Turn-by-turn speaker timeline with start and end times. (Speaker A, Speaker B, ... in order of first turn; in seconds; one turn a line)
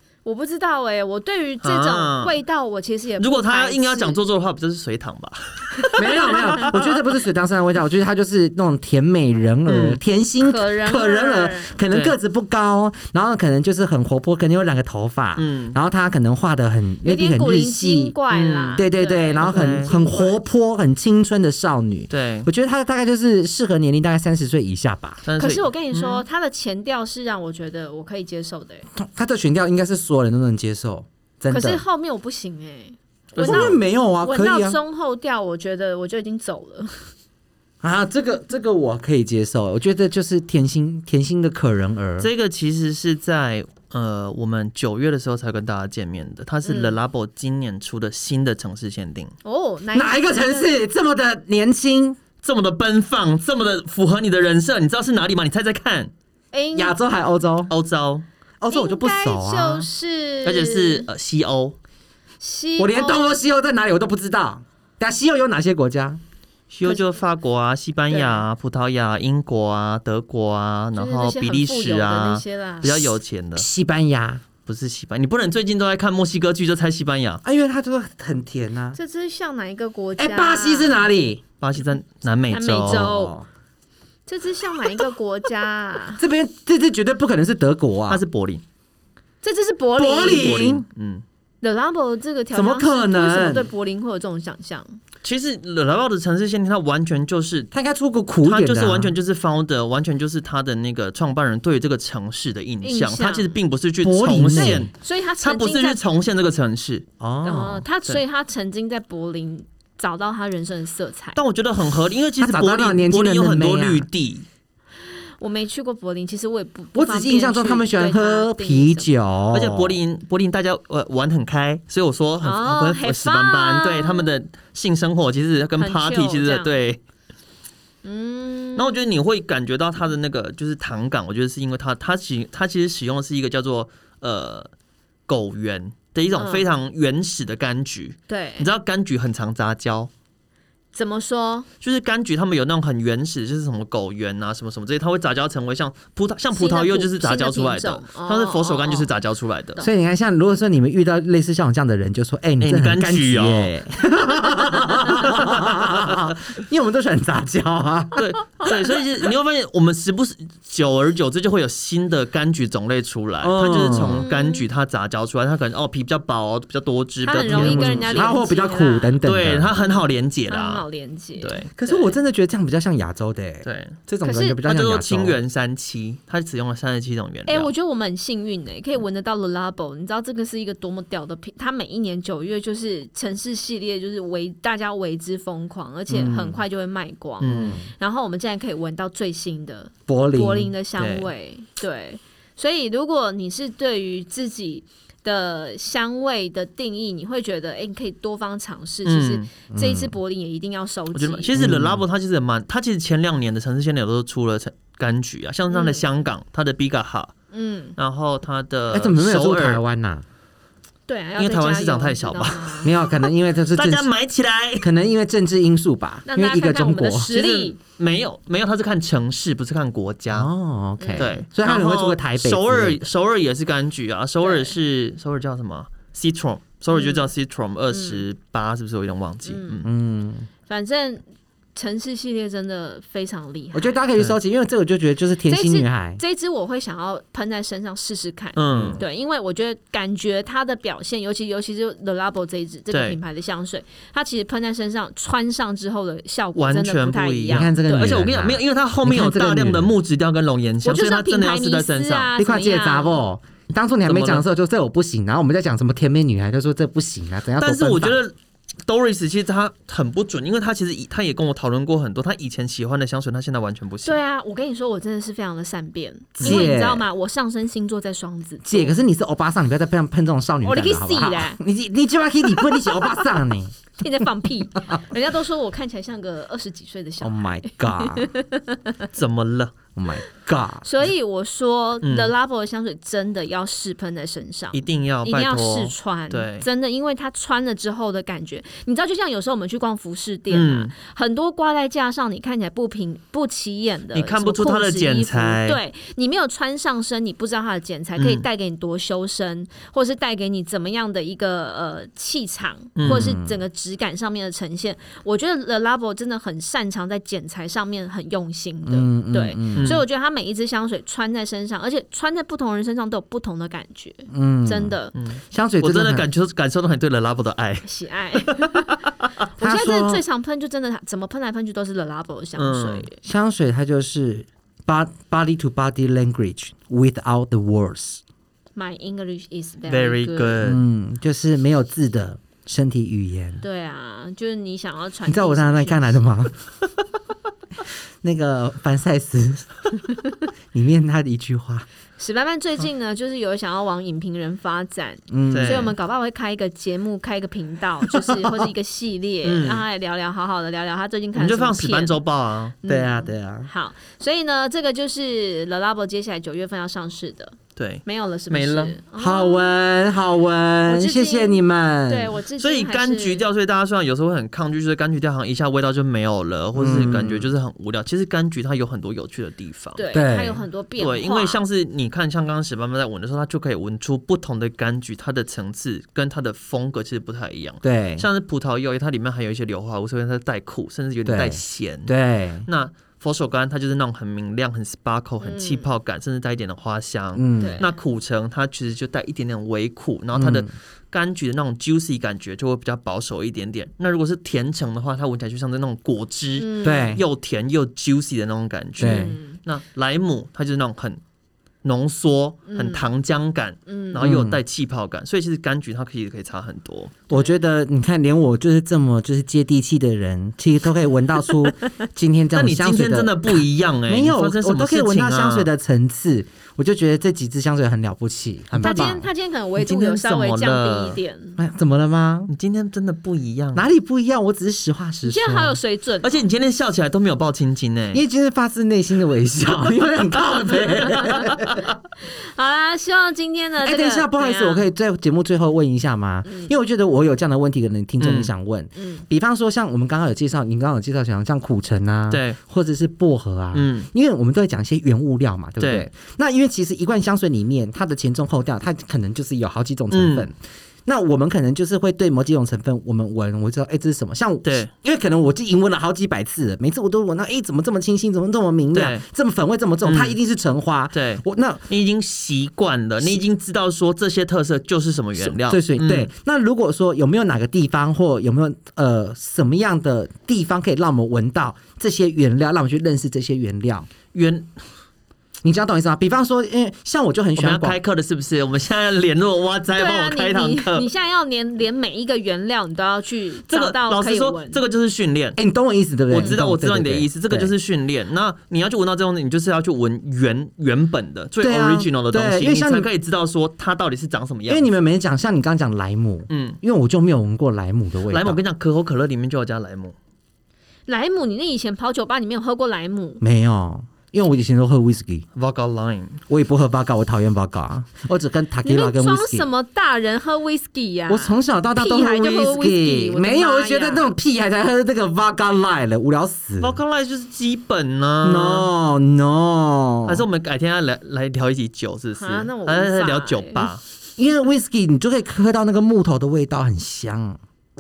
Speaker A: 0.2-4.2
Speaker B: 1.6-2.3
Speaker B: 3.2-6.9
Speaker A: 5.8-6.7
Speaker C: 6.0-18.1
Speaker B: 9.7-10.0
Speaker A: 10.4-11.8
Speaker B: 15.4-15.8
Speaker A: 17.0-20.4
Speaker B: 18.3-18.8
Speaker C: 18.8-25.2
Speaker B: 19.4-19.9
Speaker B: 22.1-22.5
Speaker B: 25.2-26.2
Speaker A: 25.4-28.9
Speaker C: 28.9-31.8
Speaker A: 31.5-37.1
Speaker C: 33.4-34.8
Speaker B: 33.4-33.8
Speaker C: 37.8-42.3
Speaker B: 42.2-49.3
Speaker A: 46.6-47.0
Speaker A: 49.4-50.7
Speaker C: 49.9-52.2
Speaker B: 52.4-56.1
Speaker A: 56.5-57.0
Speaker C: 56.8-57.7
Speaker B: 57.7-58.2
Speaker C: 58.6-59.9
Speaker A: 58.7-61.1
Speaker B: 60.4-61.8
Speaker A: 62.4-63.3
Speaker C: 62.8-66.2
Speaker B: 66.7-73.7
Speaker A: 68.1-68.4
Speaker A: 71.0-73.2
Speaker C: 73.6-74.4
Speaker B: 74.7-77.4
Speaker C: 77.4-79.0
Speaker A: 79.0-81.0
Speaker C: 80.2-81.4
Speaker B: 81.6-83.1
Speaker A: 82.5-83.3
Speaker C: 82.9-83.5
Speaker A: 84.3-86.2
Speaker C: 86.2-88.2
Speaker B: 88.1-88.6
Speaker A: 89.4-90.7
Speaker C: 90.0-90.8
Speaker B: 90.2-91.2
Speaker A: 91.6-95.0
Speaker C: 92.5-93.7
Speaker B: 95.2-97.7
Speaker C: 97.7-99.2
Speaker B: 98.4-107.1
Speaker A: 102.8-103.5
Speaker C: 104.0-104.9
Speaker A: 104.6-106.0
Speaker C: 107.2-107.8
Speaker A: 107.4-111.4
Speaker B: 111.4-114.5
Speaker C: 112.4-114.1
Speaker A: 115.1-119.1
Speaker C: 116.9-120.0
Speaker B: 119.5-127.0
Speaker A: 122.4-124.3
Speaker A: 125.8-126.7
Speaker A: 128.0-128.9
Speaker B: 128.8-134.7
Speaker B: 135.3-140.1
Speaker A: 136.3-136.7
Speaker A: 138.3-138.7
Speaker A: 140.9-141.7
Speaker B: 141.8-149.8
Speaker A: 146.5-149.1
Speaker C: 149.8-158.2
Speaker B: 152.6-153.7
Speaker B: 155.0-155.8
Speaker B: 158.2-168.4
Speaker C: 163.4-164.2
Speaker A: 163.9-164.6
Speaker A: 167.2-172.2
Speaker C: 167.4-169.8
Speaker B: 169.2-170.8
Speaker B: 171.4-171.7
Speaker C: 171.8-175.4
Speaker B: 173.7-174.0
Speaker A: 174.2-174.6
Speaker B: 174.7-177.7
Speaker A: 177.5-201.5
Speaker C: 186.1-186.6
Speaker B: 187.4-187.8
Speaker C: 187.5-187.9
Speaker C: 190.1-190.7
Speaker B: 191.0-191.3
Speaker B: 199.1-199.5
Speaker C: 199.7-200.1
Speaker B: 201.1-207.3
Speaker C: 201.6-202.0
Speaker A: 205.7-206.0
Speaker A: 207.5-208.0
Speaker B: 208.0-209.8
Speaker C: 208.9-210.2
Speaker A: 211.1-213.0
Speaker B: 211.4-212.9
Speaker C: 212.8-214.1
Speaker B: 213.7-214.9
Speaker C: 214.8-217.3
Speaker A: 216.3-217.8
Speaker B: 217.3-220.5
Speaker C: 220.3-223.0
Speaker A: 221.0-221.4
Speaker B: 221.2-229.9
Speaker A: 224.4-224.7
Speaker A: 226.9-227.3
Speaker A: 227.9-228.2
Speaker A: 229.5-229.8
Speaker C: 229.8-230.5
Speaker A: 230.7-231.2
Speaker A: 231.8-234.0
Speaker C: 233.7-236.2
Speaker A: 235.5-248.2
Speaker B: 238.6-239.0
Speaker C: 238.7-239.0
Speaker B: 242.9-243.2
Speaker B: 246.6-252.3
Speaker C: 247.5-249.9
Speaker A: 250.8-253.2
Speaker C: 252.4-258.2
Speaker B: 254.1-254.4
Speaker B: 257.6-258.3
Speaker B: 258.9-264.2
Speaker A: 264.1-268.9
Speaker C: 266.4-267.1
Speaker B: 266.4-266.7
Speaker C: 268.6-273.8
Speaker A: 270.6-271.6
Speaker A: 272.6-273.0
Speaker A: 274.0-279.1
Speaker C: 277.2-278.3
Speaker B: 279.1-279.8
Speaker C: 280.0-280.9
Speaker A: 280.9-315.1
Speaker B: 282.0-282.3
Speaker B: 284.7-286.7
Speaker B: 290.5-290.9
Speaker B: 294.1-295.8
Speaker B: 298.2-298.4
Speaker B: 303.0-303.3
Speaker C: 303.1-303.6
Speaker C: 308.9-309.9
Speaker B: 309.8-310.0
Speaker C: 314.3-314.9
Speaker B: 315.1-317.9
Speaker C: 315.5-316.3
Speaker A: 317.9-318.9
Speaker B: 318.5-319.0
Speaker A: 319.6-323.2
Speaker C: 319.6-320.2
Speaker B: 322.6-323.1
Speaker C: 323.2-328.2
Speaker A: 328.8-330.6
Speaker B: 329.9-330.8
Speaker C: 330.6-333.6
Speaker A: 333.6-336.2
Speaker C: 335.3-336.5
Speaker C: 338.2-339.7
Speaker C: 340.7-341.9
Speaker A: 342.2-352.2
Speaker C: 345.3-345.9
Speaker B: 345.5-345.9
Speaker C: 348.2-348.6
Speaker B: 349.4-349.8
Speaker B: 351.4-352.7
Speaker A: 352.8-359.8
Speaker C: 352.9-353.7
Speaker B: 357.8-359.0
Speaker C: 359.2-362.4
Speaker A: 360.9-363.4
Speaker B: 362.6-370.0
Speaker C: 366.8-367.5
Speaker A: 370.0-371.6
Speaker C: 370.1-370.6
Speaker B: 371.0-382.1
Speaker C: 377.8-378.3
Speaker C: 381.3-382.7
Speaker B: 382.6-401.2
Speaker A: 385.4-385.9
Speaker C: 387.4-387.8
Speaker A: 387.6-387.9
Speaker C: 390.4-390.7
Speaker A: 396.6-397.2
Speaker C: 396.8-397.2
Speaker A: 399.0-399.6
Speaker C: 399.0-399.4
Speaker B: 401.8-407.2
Speaker A: 402.7-403.1
Speaker A: 403.9-404.2
Speaker C: 404.2-404.6
Speaker C: 407.3-419.3
Speaker B: 412.5-415.7
Speaker A: 418.8-421.6
Speaker B: 418.8-419.1
Speaker B: 419.8-421.2
Speaker C: 421.6-422.5
Speaker B: 422.5-423.9
Speaker C: 423.8-425.8
Speaker A: 425.3-426.5
Speaker B: 426.2-428.2
Speaker C: 428.1-431.9
Speaker A: 431.1-431.5
Speaker A: 432.3-434.8
Speaker C: 433.8-450.6
Speaker A: 436.5-436.7
Speaker B: 438.2-438.5
Speaker A: 439.0-439.2
Speaker B: 442.3-442.6
Speaker B: 443.7-444.1
Speaker B: 445.8-446.1
Speaker B: 450.1-450.5
Speaker C: 451.1-461.9
Speaker B: 454.6-454.9
Speaker B: 458.9-459.2
Speaker B: 460.0-460.4
Speaker B: 461.1-466.3
Speaker C: 465.4-474.1
Speaker B: 474.3-474.7
Speaker C: 475.6-478.0
Speaker B: 477.6-481.1
Speaker A: 479.9-484.8
Speaker B: 483.7-485.6
Speaker C: 485.6-487.7
Speaker B: 486.3-494.9
Speaker C: 491.6-493.1
Speaker C: 494.7-498.6
Speaker B: 496.5-496.8
Speaker B: 498.3-500.1
Speaker A: 501.1-503.4
Speaker C: 503.4-505.5
Speaker B: 505.6-506.4
Speaker C: 506.5-509.7
Speaker A: 508.9-514.3
Speaker C: 511.3-517.0
Speaker B: 516.8-518.9
Speaker C: 518.4-520.5
Speaker B: 520.3-524.0
Speaker A: 522.4-523.9
Speaker C: 524.4-527.6